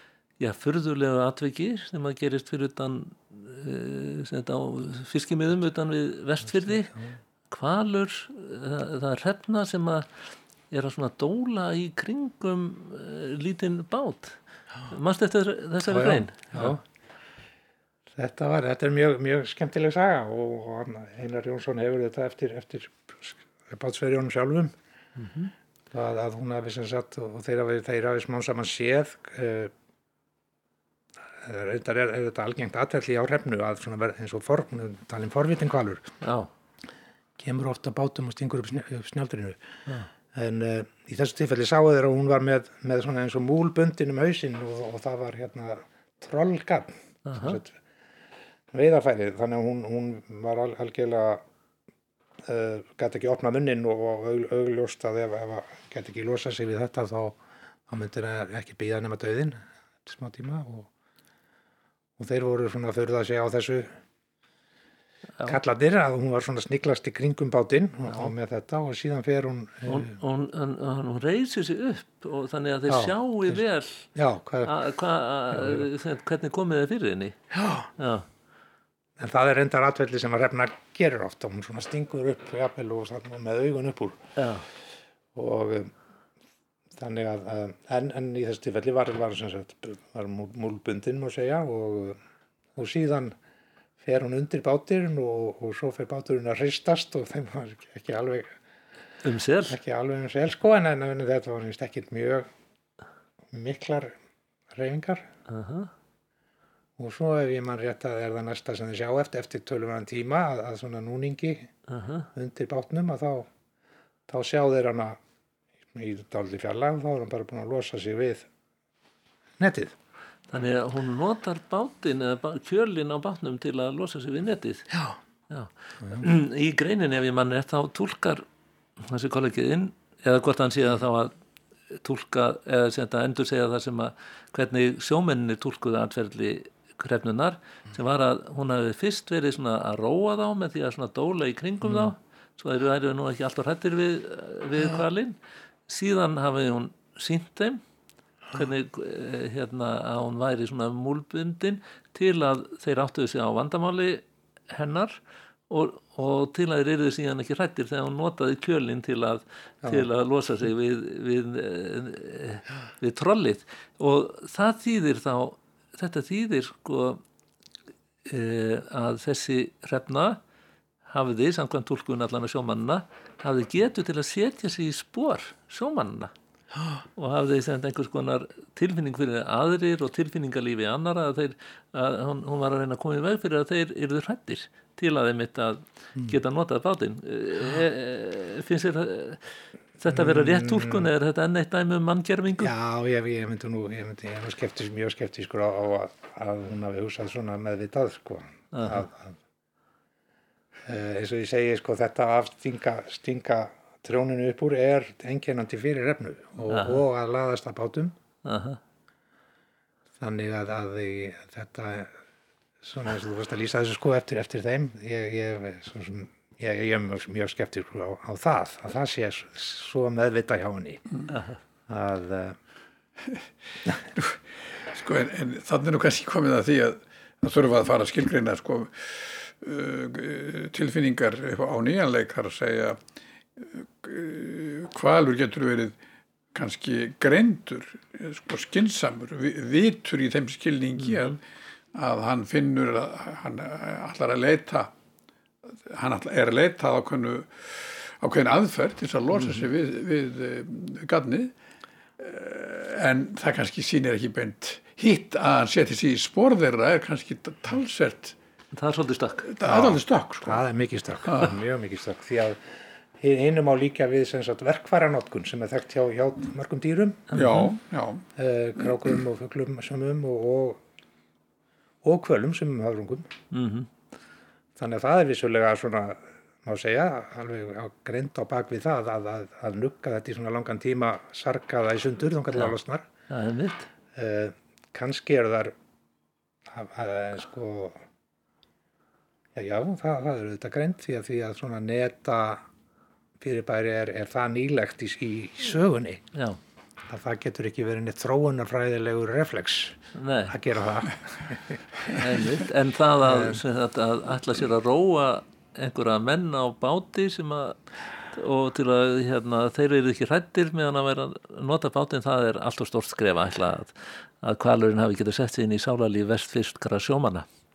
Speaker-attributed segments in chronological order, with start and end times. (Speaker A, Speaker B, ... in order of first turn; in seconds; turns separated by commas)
Speaker A: 0.4-6.9, Speaker B: 6.6-7.1, Speaker A: 7.5-10.1, Speaker A: 10.7-16.8, Speaker B: 15.9-16.8, Speaker B: 18.1-24.7, Speaker A: 25.2-25.5, Speaker B: 25.9-29.7, Speaker B: 31.4-36.1, Speaker A: 36.2-36.5, Speaker B: 37.4-39.6, Speaker B: 40.3-47.8, Speaker A: 47.2-47.6, Speaker B: 48.7-51.4, Speaker B: 52.4-60.9, Speaker B: 62.2-64.0, Speaker B: 65.5-70.2, Speaker A: 69.9-74.1, Speaker B: 72.9-73.6, Speaker B: 74.2-74.8, Speaker A: 74.6-77.4, Speaker B: 75.5-75.8, Speaker B: 77.5-77.9, Speaker A: 78.0-78.3, Speaker B: 79.2-84.2, Speaker A: 84.4-84.7, Speaker B: 85.3-85.9, Speaker B: 87.0-92.2, Speaker B: 92.8-93.3, Speaker B: 94.0-98.5, Speaker A: 99.2-99.8, Speaker B: 99.7-102.5, Speaker B: 103.5-104.2, Speaker B: 104.7-105.3, Speaker A: 105.5-105.9, Speaker B: 107.0-111.7, Speaker A: 111.9-112.3, Speaker B: 112.3-113.5, Speaker B: 114.3-115.2, Speaker B: 115.9-118.5, Speaker B: 119.6-120.0, Speaker A: 120.5-124.9, Speaker A: 125.5-128.4, Speaker A: 129.0-131.3, Speaker A: 131.9-145.4, Speaker A: 145.9-147.8, Speaker A: 148.5-155.2, Speaker A: 155.7-167.2, Speaker A: 168.3-170.4, Speaker A: 171.1-176.3, Speaker A: 177.2-189.4, Speaker A: 190.0-192.7, Speaker B: 190.1-191.1, Speaker B: 192.6-199.4, Speaker A: 198.7-199.1, Speaker B: 200.8-208.2, Speaker A: 206.7-207.0, Speaker A: 208.4-208.8, Speaker B: 210.2-212.1, Speaker B: 212.8-221.0, Speaker A: 221.3-221.6, Speaker B: 221.9-222.6, Speaker C: 224.2-233.0, Speaker C: 233.6-236.0, Speaker C: 236.5-241.4, Speaker C: 241.9-244.9, Speaker C: 245.7-251.5, Speaker C: 252.2-258.4, Speaker A: 258.7-259.5, Speaker C: 259.5-260.6, Speaker B: 259.6-262.6, Speaker C: 261.3-261.5, Speaker B: 263.2-267.3, Speaker A: 267.3-267.7, Speaker C: 267.3-268.3, Speaker B: 268.4-270.8, Speaker B: 272.0-273.3, Speaker A: 273.5-273.9, Speaker B: 274.8-283.1, Speaker A: 283.3-283.9, Speaker B: 284.1-285.7, Speaker B: 286.7-288.0, Speaker B: 289.6-292.6, Speaker B: 293.4-296.2, Speaker A: 296.3-296.6, Speaker B: 297.1-300.0, Speaker A: 300.1-300.6, Speaker B: 300.5-301.8, Speaker A: 302.1-307.8, Speaker B: 303.2-303.6, Speaker A: 308.3-317.5